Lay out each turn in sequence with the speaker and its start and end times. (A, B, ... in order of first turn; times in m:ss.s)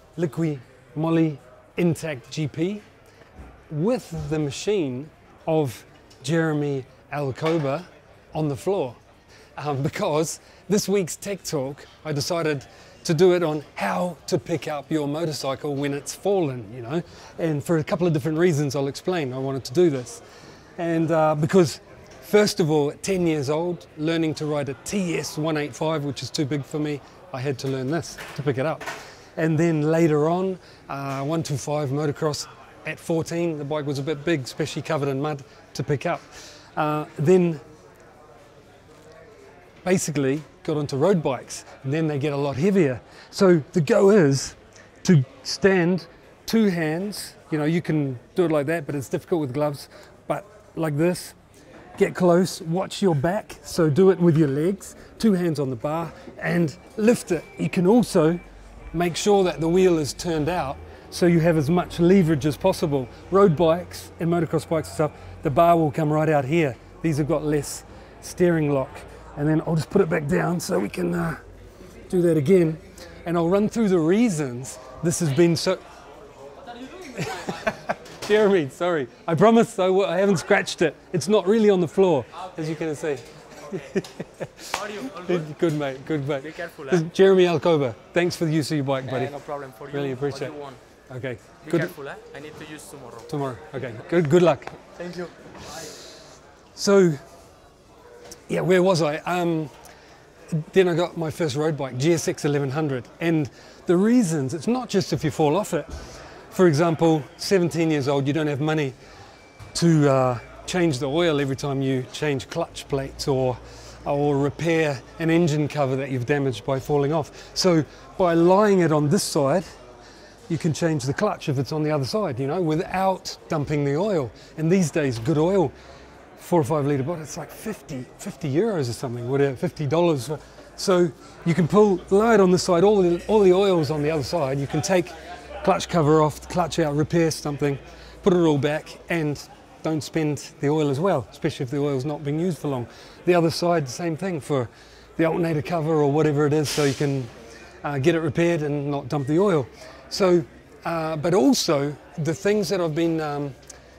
0:00.2-0:02.8 A
0:03.7-0:09.0 A
0:09.6-0:20.2 A
0:20.8-0:36.2 A
0:36.8-0:37.6 A
0:39.8-0:51.4 A
0:52.0-0:58.4 A
0:58.9-1:11.4 A
1:12.1-1:15.8 A
1:17.0-1:29.4 A
1:24.8-1:25.4 B
1:26.4-1:27.0 B
1:29.1-1:30.8 B
1:29.9-1:30.6 A
1:31.1-1:31.9 A
1:31.6-1:33.3 B
1:33.3-1:34.8 A
1:35.0-1:35.3 B
1:36.8-1:37.2 A
1:38.5-1:39.7 A
1:40.5-1:45.9 A
1:46.5-1:49.0 A
1:49.7-1:59.7 A
2:00.5-2:05.7 A
2:06.4-2:27.3 A
2:27.8-2:33.6 A